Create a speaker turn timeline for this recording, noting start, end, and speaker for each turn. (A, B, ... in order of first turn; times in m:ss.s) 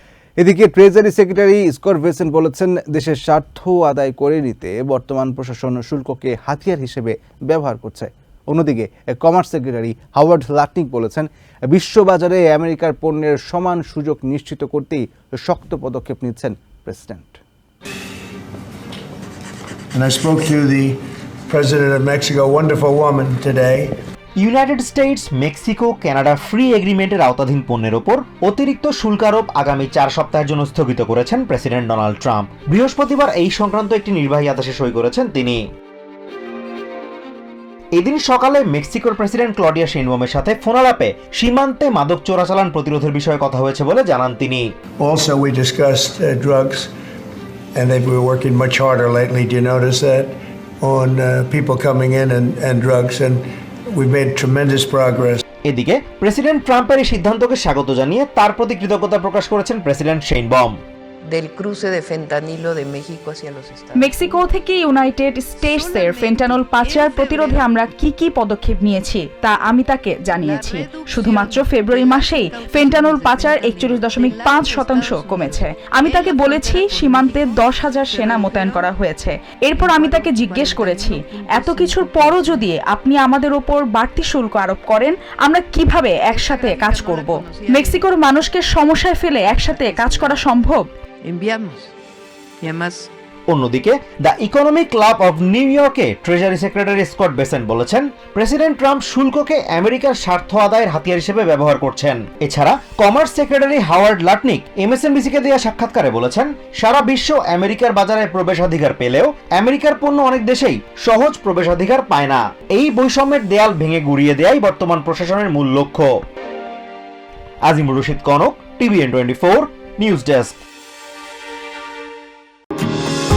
0:00.4-0:17.4 A
0:19.9-0:23.9 B
0:24.4-0:35.6 C
0:37.9-0:44.6 C
0:45.0-0:46.9 B
0:47.7-0:55.4 B
0:55.6-1:00.7 C
1:01.3-1:04.2 D
1:03.9-1:30.9 E
1:05.6-1:07.8 D
1:10.3-1:18.9 D
1:19.8-1:22.7 D
1:26.2-1:28.1 D
1:29.4-1:30.5 D
1:31.3-1:31.9 D
1:32.6-1:33.1 D
1:33.5-1:56.1 C
1:57.6-2:00.6 C